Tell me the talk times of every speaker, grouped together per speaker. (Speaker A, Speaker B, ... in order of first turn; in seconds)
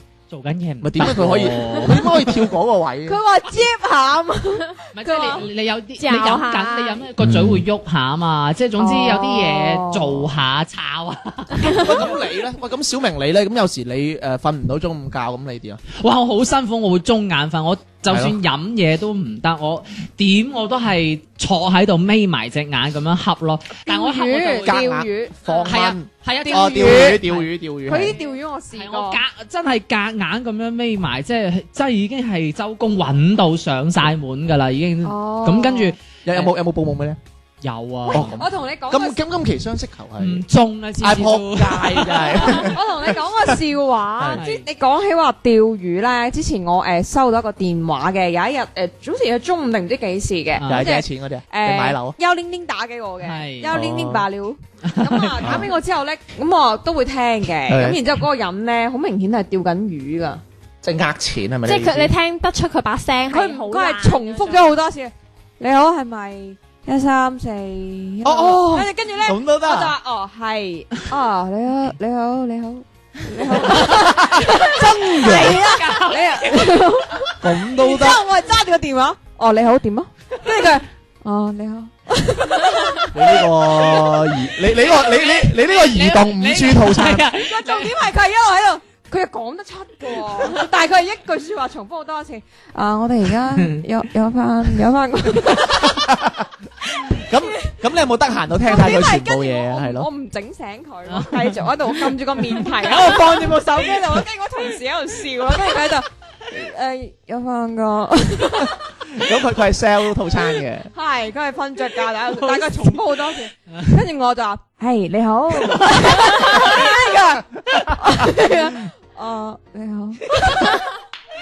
Speaker A: 0.3-2.3, 4.9-12.1, 15.9-24.8, 25.6-27.5, 28.1-36.5, 37.6-38.4, 40.2-42.7, 44.3-44.7, 50.6-50.9, 53.2-53.7, 54.9-55.7, 73.7-74.0, 74.7-76.8, 84.8-88.0, 93.5-93.8, 101.1-103.5, 112.3-112.9, 115.8-116.8, 120.4-120.7
Speaker B: 0.8-3.2, 7.2-7.6, 11.6-15.8, 18.1-18.4, 24.6-28.2, 36.2-37.2, 38.1-40.4, 41.0-43.4, 50.7-52.2, 53.7-54.3, 55.4-55.7, 57.7-58.0, 60.8-62.1, 68.2-69.9, 73.8-75.6, 77.4-78.2, 83.1-87.2, 95.8-96.5, 97.2-100.1, 103.0-103.8, 109.1-110.9
Speaker C: 3.0-5.4, 8.8-10.2, 23.9-25.8, 26.4-27.2, 27.9-29.2, 35.0-36.0, 38.0-39.2, 42.5-60.4, 63.3-84.2, 87.3-96.0, 98.6-108.9, 110.9-120.9
Speaker D: 6.0-7.1, 61.6-64.7